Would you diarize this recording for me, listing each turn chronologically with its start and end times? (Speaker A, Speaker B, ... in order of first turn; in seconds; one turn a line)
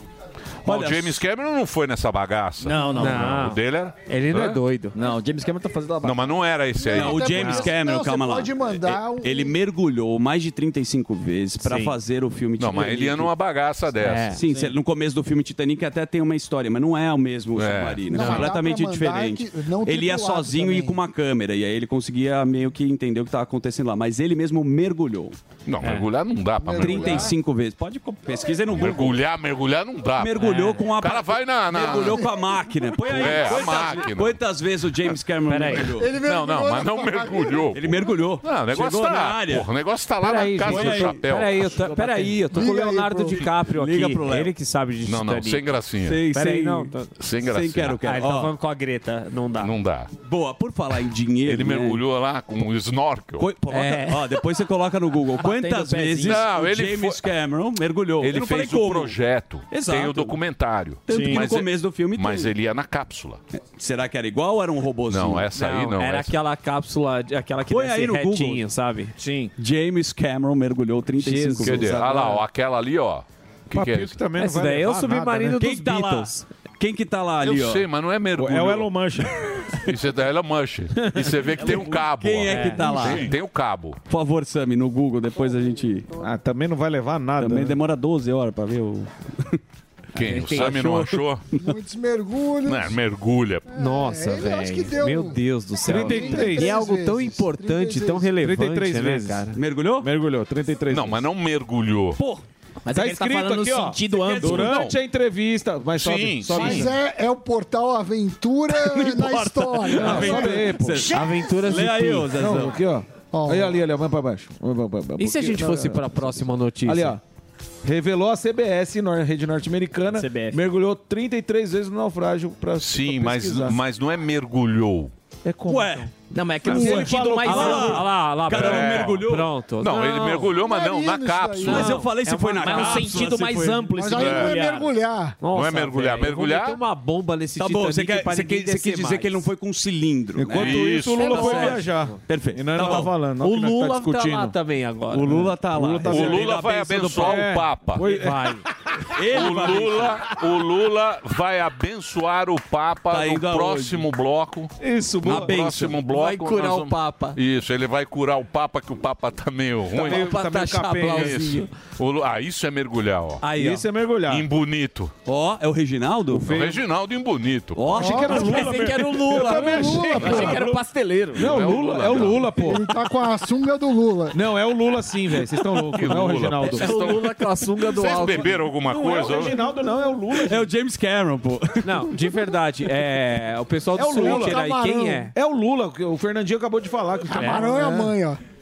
Speaker A: 0.6-1.2
Speaker B: 0.6-4.6
Speaker C: 2.6-3.3
Speaker D: 2.9-5.0
Speaker C: 4.9-6.2
Speaker B: 6.0-7.7
Speaker E: 6.8-9.5
Speaker A: 6.9-13.3
Speaker D: 11.6-11.9
Speaker B: 12.6-14.4
Speaker D: 14.0-14.7
Speaker A: 14.3-25.4
Speaker B: 17.6-18.4
Speaker E: 18.1-21.0
Speaker B: 25.6-27.3
Speaker D: 25.8-26.1
Speaker E: 26.6-27.3
Speaker A: 26.7-29.2
Speaker B: 28.7-32.3
Speaker A: 30.2-36.2
Speaker D: 30.4-30.8
Speaker E: 31.9-32.3
Speaker B: 33.0-34.4
Speaker D: 35.5-35.9
Speaker E: 35.9-37.8
Speaker B: 36.1-41.7
Speaker A: 37.7-39.7
Speaker D: 40.2-47.1
Speaker A: 40.6-42.5
Speaker E: 42.5-43.5
Speaker A: 43.7-44.5
Speaker B: 45.0-46.2
Speaker A: 46.0-48.5
Speaker B: 47.2-48.0
Speaker D: 48.0-49.7
Speaker B: 49.6-50.1
Speaker A: 50.2-52.0
Speaker B: 51.4-53.5
Speaker A: 53.4-59.2
Speaker D: 53.7-54.5
Speaker D: 55.4-56.3
Speaker B: 56.2-57.2
Speaker B: 58.2-63.4
Speaker A: 59.7-60.4
Speaker A: 61.1-62.5
Speaker D: 61.1-61.5
Speaker A: 63.6-65.5
Speaker B: 65.1-66.3
Speaker D: 65.5-69.5
Speaker A: 67.7-68.6
Speaker A: 69.6-72.2
Speaker D: 71.2-72.4
Speaker B: 71.6-74.2
Speaker F: 73.7-75.6
Speaker D: 74.3-76.4
Speaker A: 75.5-77.9
Speaker B: 77.4-79.1
Speaker F: 78.4-79.7
Speaker B: 79.7-84.0
Speaker A: 81.6-83.3
Speaker D: 82.5-83.2
Speaker A: 84.1-86.1
Speaker F: 86.2-87.8
Speaker A: 87.4-89.6
Speaker B: 90.1-91.5
Speaker D: 90.2-91.0
Speaker A: 90.3-91.6
Speaker E: 91.5-93.0
Speaker B: 92.6-93.7
Speaker E: 93.7-98.3
Speaker D: 93.7-99.6
Speaker F: 95.8-96.8
Speaker F: 98.4-99.5
Speaker A: 99.5-100.1
Speaker F: 100.0-101.2
Speaker B: 100.9-102.2
Speaker A: 102.2-102.4
Speaker C: 102.8-104.9
Speaker F: 102.9-106.9
Speaker A: 104.4-104.9
Speaker B: 106.0-106.7
Speaker E: 106.5-110.7
Speaker A: 108.7-112.8
Speaker F: 109.9-111.3
Speaker D: 110.8-112.4
Speaker F: 112.3-117.2
Speaker E: 113.3-113.8
Speaker D: 115.2-117.2
Speaker F: 117.8-123.8
Speaker C: 120.1-120.6
Speaker B: 122.8-125.1
Speaker F: 125.4-126.1
Speaker A: 125.7-126.1
Speaker C: 126.3-128.0
Speaker F: 126.6-128.0
Speaker A: 126.6-129.5
Speaker D: 126.7-130.5
Speaker B: 128.5-129.2
Speaker B: 129.8-131.9
Speaker E: 130.5-132.0
Speaker D: 131.6-139.4
Speaker A: 131.7-134.0
Speaker C: 132.7-134.4
Speaker E: 133.9-135.4
Speaker B: 134.1-134.6
Speaker B: 135.5-136.8
Speaker A: 137.6-143.2
Speaker F: 140.3-144.6
Speaker B: 140.5-141.7
Speaker D: 141.1-142.2
Speaker D: 143.3-145.4
Speaker A: 145.1-147.6
Speaker F: 145.3-146.5
Speaker B: 146.1-148.1
Speaker F: 147.2-148.6
Speaker D: 148.0-148.7
Speaker A: 149.1-150.3
Speaker B: 149.3-154.7
Speaker A: 153.1-154.1
Speaker F: 154.8-155.5
Speaker B: 155.2-160.3
Speaker A: 155.3-156.0
Speaker D: 156.0-157.4
Speaker D: 159.9-161.7
Speaker F: 160.0-161.6
Speaker B: 161.1-163.4
Speaker D: 163.4-163.9
Speaker F: 163.5-164.5
Speaker B: 164.3-165.1
Speaker A: 165.2-166.6
Speaker F: 166.3-166.8
Speaker B: 166.4-168.0
Speaker A: 167.7-168.8
Speaker F: 167.9-170.8
Speaker E: 168.0-168.7
Speaker D: 168.1-171.8
Speaker E: 169.3-170.6
Speaker B: 170.1-170.6
Speaker B: 171.3-172.6
Speaker F: 171.3-172.9
Speaker E: 172.5-174.4
Speaker F: 174.3-176.9
Speaker B: 175.8-179.6
Speaker D: 176.6-178.6
Speaker F: 178.8-180.7
Speaker A: 180.3-182.1
Speaker D: 181.8-185.3
Speaker F: 183.9-188.1
Speaker E: 184.1-185.2
Speaker D: 187.3-187.8
Speaker E: 187.3-188.4